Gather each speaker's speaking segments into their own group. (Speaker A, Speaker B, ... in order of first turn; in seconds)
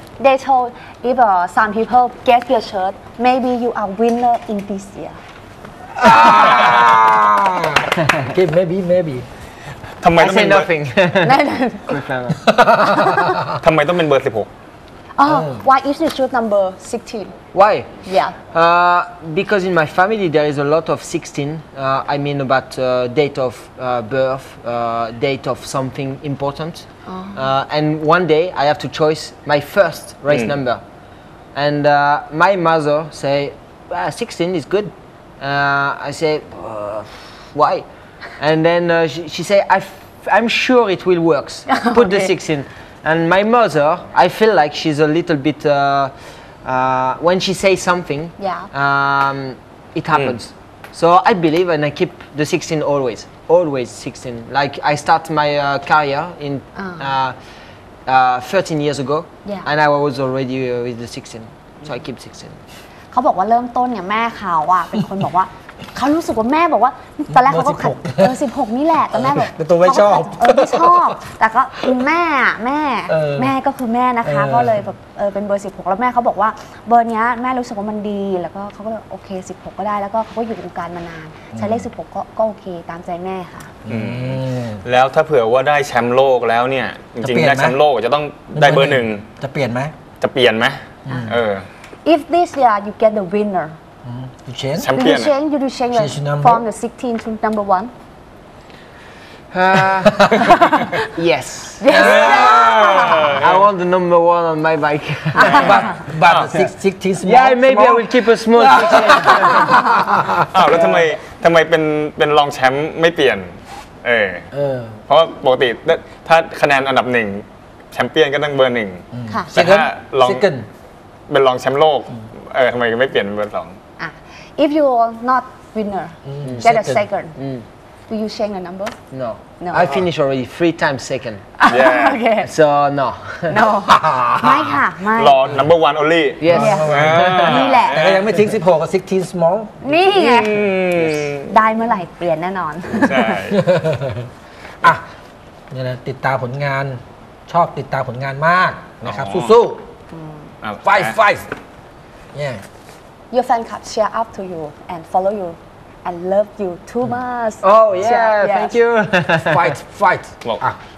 Speaker A: 0.2-5.2, 11.2-11.9, 12.8-13.4, 15.2-17.4, 18.0-18.4, 27.1-27.5, 41.7-42.3, 48.4-48.7, 56.7-57.2, 63.1-83.7, 91.1-91.3, 92.0-93.8, 94.9-97.9, 100.4-101.0, 101.8-103.4, 105.3-105.9, 109.3-109.8, 124.0-127.3, 128.1-128.9, 129.6-130.0, 131.6-132.5, 133.5-135.4, 136.5-138.0, 139.8-140.7, 141.5-143.4, 150.1-150.5, 153.3-158.7
Speaker B: 6.0-9.2, 12.6-13.2, 15.2-15.6, 67.3-68.4, 69.1-71.2, 73.1-73.5, 74.2-74.9, 81.5-81.9, 83.8-84.8, 87.2-87.8, 88.5-89.9, 91.0-91.3, 94.0-94.9, 95.9-96.6, 100.0-100.4, 105.4-110.4, 114.5-115.0, 119.1-120.7, 126.2-127.0, 133.9-134.8, 136.5-139.7, 143.5-144.3, 145.7-149.8, 150.8-151.5, 152.3-152.6, 159.4-160.8
Speaker C: 6.3-6.9, 10.0-10.7, 13.5-14.5, 30.3-30.6, 83.9-89.2, 90.2-91.7, 94.8-95.3, 102.0-103.6, 106.2-106.5, 110.5-114.5, 115.1-120.5, 121.3-123.8, 131.7-132.2, 135.2-138.3, 140.1-141.5, 143.0-143.6, 149.0-149.6, 150.6-151.2
Speaker D: 10.2-12.4, 17.5-30.8, 31.5-37.8, 38.4-57.4, 58.0-62.6, 99.5-100.4, 101.1-102.3, 103.3-105.9, 107.2-109.9, 110.7-111.0, 126.4-126.7, 127.3-127.7, 129.1-131.5, 132.4-133.6, 136.4-137.6, 157.6-159.7